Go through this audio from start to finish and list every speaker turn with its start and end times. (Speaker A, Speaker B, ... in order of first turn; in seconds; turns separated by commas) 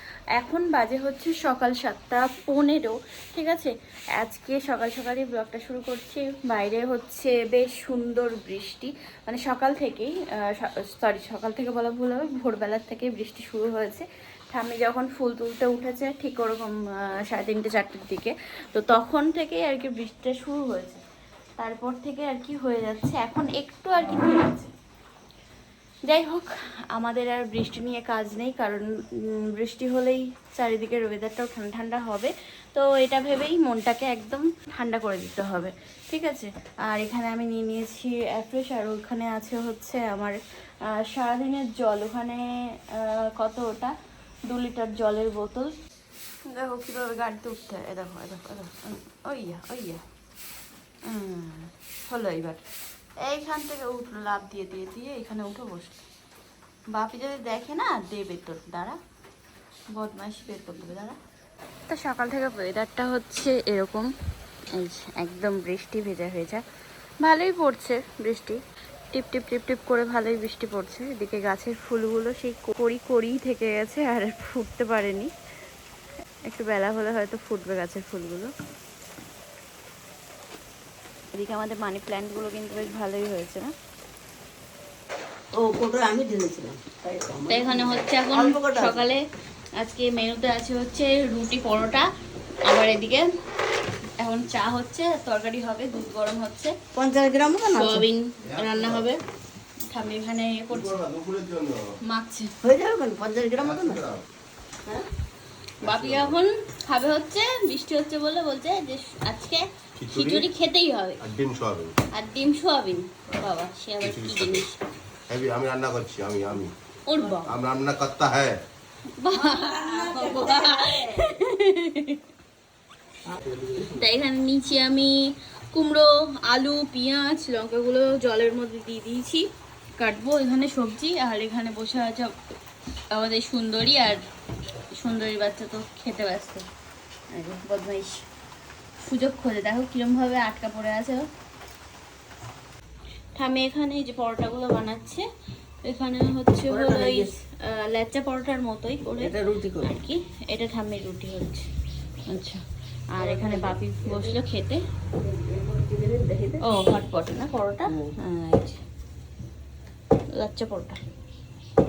Speaker A: 0.4-21.0, Speaker A: 21.6-24.7, Speaker A: 26.1-43.9, Speaker A: 44.5-45.7, Speaker A: 46.5-50.0, Speaker A: 51.1-52.6, Speaker A: 53.2-56.0, Speaker A: 56.9-59.0, Speaker A: 59.9-61.2, Speaker A: 61.9-64.1, Speaker A: 64.8-66.6, Speaker A: 67.2-68.6, Speaker A: 69.1-75.3, Speaker A: 76.5-78.5, Speaker A: 81.3-83.7, Speaker B: 85.5-89.0, Speaker A: 87.5-89.2, Speaker A: 89.8-92.1, Speaker A: 92.7-93.3, Speaker A: 94.2-96.8, Speaker B: 97.0-98.1, Speaker A: 97.7-99.2, Speaker C: 98.5-99.0, Speaker A: 99.9-101.0, Speaker C: 100.7-101.8, Speaker A: 102.1-102.5, Speaker B: 102.6-104.0, Speaker C: 103.6-104.3, Speaker A: 105.8-111.2, Speaker C: 105.8-106.4, Speaker C: 110.0-110.5, Speaker C: 111.2-112.0, Speaker A: 112.1-114.7, Speaker C: 114.0-114.7, Speaker C: 115.3-116.7, Speaker A: 117.1-117.6, Speaker C: 117.4-118.6, Speaker A: 119.2-122.2, Speaker B: 119.3-121.3, Speaker A: 123.8-129.5, Speaker A: 130.0-132.3, Speaker A: 133.1-134.2, Speaker A: 135.0-136.7, Speaker A: 137.3-138.2, Speaker A: 139.0-141.3, Speaker A: 143.3-145.3, Speaker A: 145.8-151.7, Speaker B: 146.7-147.3, Speaker B: 149.2-149.9, Speaker A: 152.3-154.8, Speaker B: 153.2-154.3, Speaker B: 155.2-156.8, Speaker A: 156.6-158.8, Speaker A: 160.3-161.0